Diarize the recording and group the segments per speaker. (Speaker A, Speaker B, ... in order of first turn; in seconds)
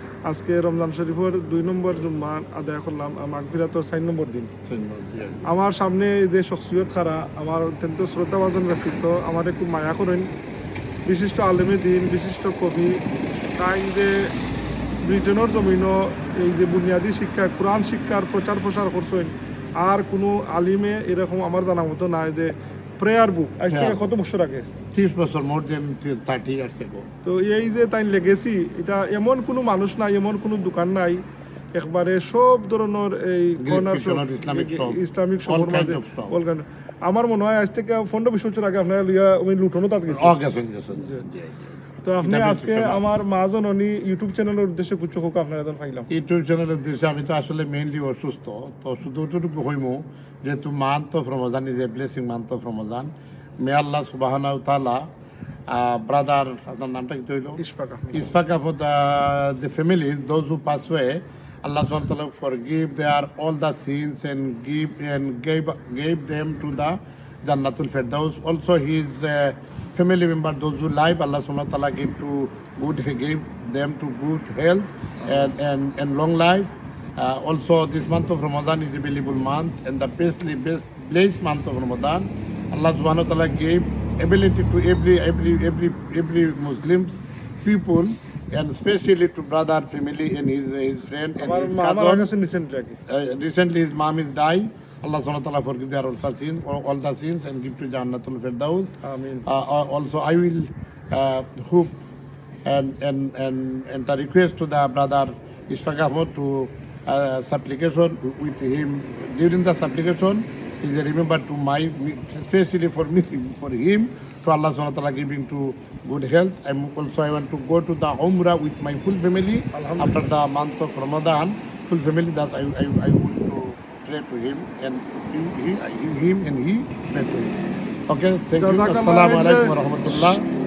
Speaker A: 0.3-4.5, 5.5-10.3, 11.1-13.0, 13.6-14.2, 15.0-24.7, 27.2-31.2, 31.8-40.4, 42.0-46.1, 57.6-58.3, 91.4-93.0, 99.0-99.4, 119.7-120.3, 128.6-130.3
Speaker B: 4.7-5.5, 23.7-24.0, 24.9-27.1, 33.6-36.4, 40.1-43.2, 46.1-55.0, 55.7-57.6, 58.1-92.3, 93.1-102.0, 102.6-130.5